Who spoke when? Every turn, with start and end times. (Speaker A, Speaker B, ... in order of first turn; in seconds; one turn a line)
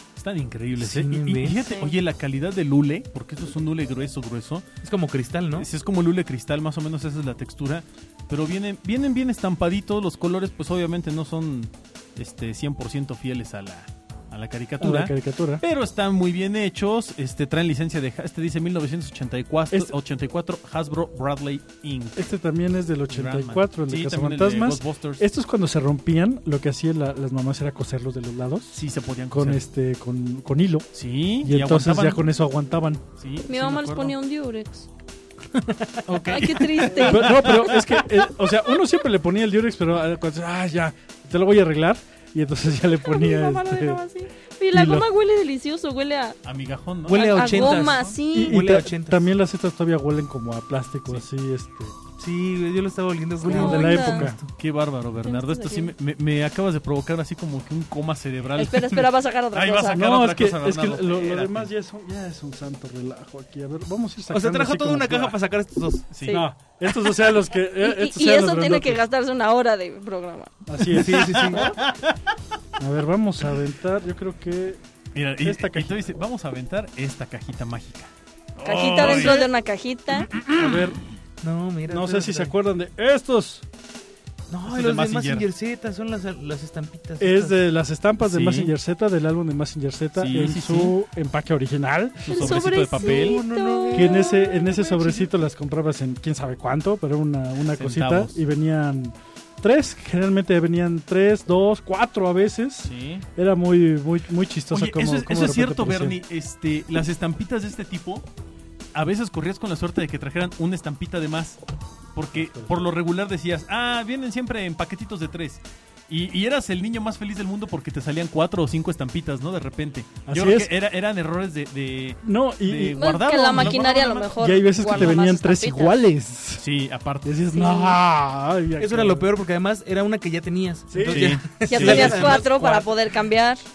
Speaker A: 0.1-4.6
Speaker B: 0.8-1.6
Speaker C: 1.5-1.9
Speaker B: 4.8-5.7
Speaker A: 5.5-22.2
Speaker D: 14.8-15.6
Speaker D: 22.1-28.8
Speaker A: 23.1-25.2
Speaker A: 28.7-29.6
Speaker D: 29.3-30.9
Speaker A: 30.9-32.2
Speaker D: 31.4-33.0
Speaker A: 33.2-34.1
Speaker C: 33.5-34.9
Speaker B: 35.5-36.2
Speaker A: 36.1-38.0
Speaker C: 36.3-37.7
Speaker D: 36.9-44.0
Speaker C: 43.0-46.4
Speaker D: 44.7-45.1
Speaker A: 46.4-48.2
Speaker B: 47.1-49.3
Speaker C: 47.3-48.6
Speaker D: 48.3-52.0
Speaker B: 52.2-54.5
Speaker D: 53.4-54.4
Speaker C: 53.5-54.3
Speaker A: 54.5-61.7
Speaker C: 55.2-55.9
Speaker C: 58.5-60.1
Speaker D: 59.9-65.4
Speaker B: 64.3-66.1
Speaker A: 66.1-66.4
Speaker C: 66.2-66.5
Speaker D: 66.3-69.0
Speaker C: 67.8-70.5
Speaker D: 70.7-71.7
Speaker A: 70.9-72.2
Speaker B: 70.9-71.7
Speaker D: 72.8-74.8
Speaker A: 75.1-79.5
Speaker D: 75.4-76.0
Speaker C: 78.6-80.3
Speaker A: 80.3-80.8
Speaker D: 80.4-81.0
Speaker B: 81.4-82.5
Speaker D: 81.9-83.6
Speaker B: 84.5-87.6
Speaker A: 84.6-85.5
Speaker D: 87.2-92.5
Speaker A: 88.2-88.7
Speaker A: 90.2-90.9
Speaker A: 92.2-93.4
Speaker C: 92.3-94.9
Speaker B: 93.0-95.3
Speaker D: 93.9-106.2
Speaker A: 97.6-98.4
Speaker A: 102.8-103.2
Speaker A: 104.7-108.2
Speaker A: 108.9-111.6
Speaker A: 112.1-125.2
Speaker D: 112.3-112.7
Speaker D: 120.2-120.7
Speaker D: 122.2-123.8
Speaker C: 122.9-126.0
Speaker D: 124.3-126.6
Speaker A: 126.6-127.3
Speaker D: 127.2-129.3
Speaker C: 127.5-128.0
Speaker B: 128.8-132.9
Speaker D: 130.9-132.3
Speaker A: 131.1-132.4
Speaker C: 131.6-133.6